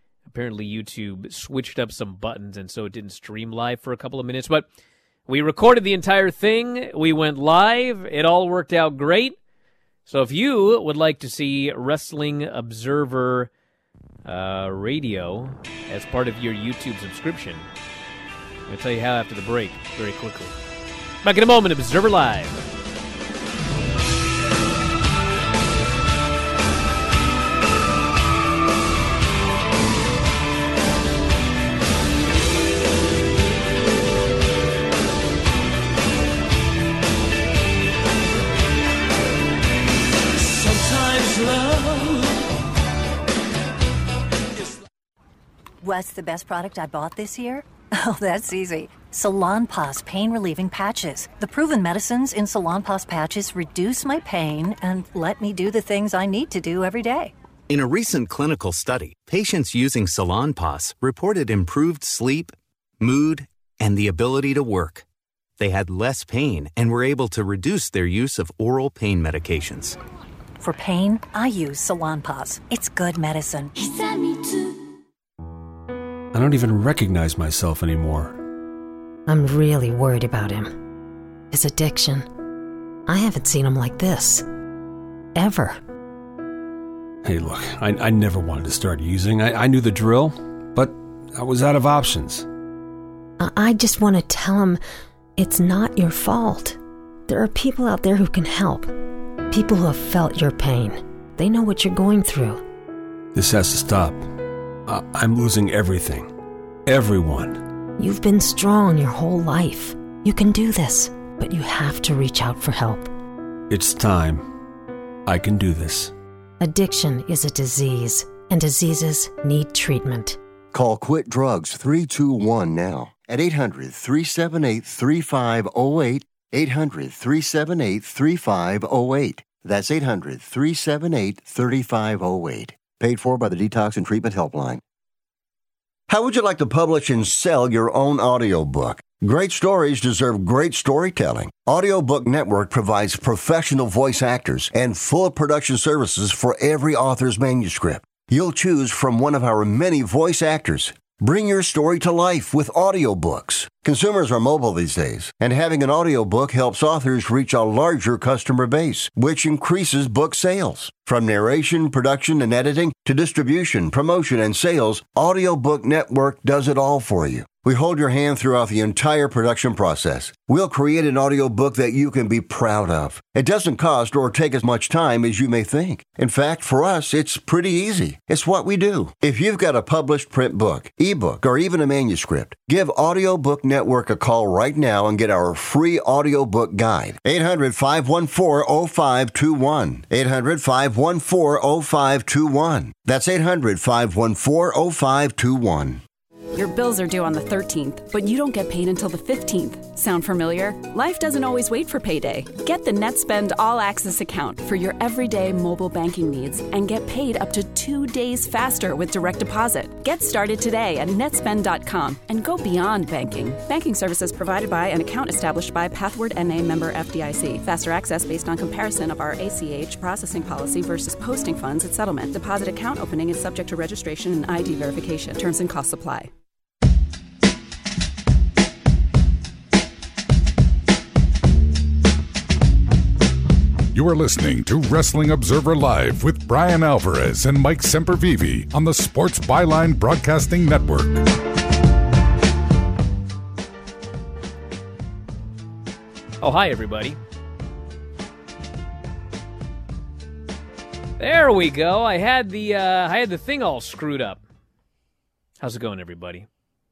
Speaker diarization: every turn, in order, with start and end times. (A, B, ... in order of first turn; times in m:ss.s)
0:00.2-0:04.6 A
0:05.3-0:09.4 A
0:10.0-0:13.5 A
0:14.2-0:17.7 A
0:18.7-0:20.5 A
0:21.2-0:22.6 A
0:45.8-0:57.3 B
0:57.7-1:05.0 C
1:05.6-1:10.0 C
1:10.6-1:14.4 B
1:16.3-1:18.4 D
1:19.2-1:20.7 E
1:21.5-1:22.3 E
1:23.0-1:24.4 E
1:25.3-1:25.8 E
1:27.2-1:32.4 D
1:33.4-1:34.8 E
1:35.4-1:38.9 E
1:39.5-1:42.6 E
1:43.3-1:44.3 D
1:44.8-1:46.3 D
1:46.9-1:47.6 D
1:48.0-1:53.1 E
1:53.7-1:54.5 D
1:55.2-1:56.1 D
1:56.6-2:00.4 E
2:00.7-2:14.8 F
2:16.1-3:16.0 F
3:16.5-3:46.3 G
3:53.9-4:01.3 H
4:06.4-4:07.2 A
4:11.2-4:14.4 A
4:15.6-4:16.5 A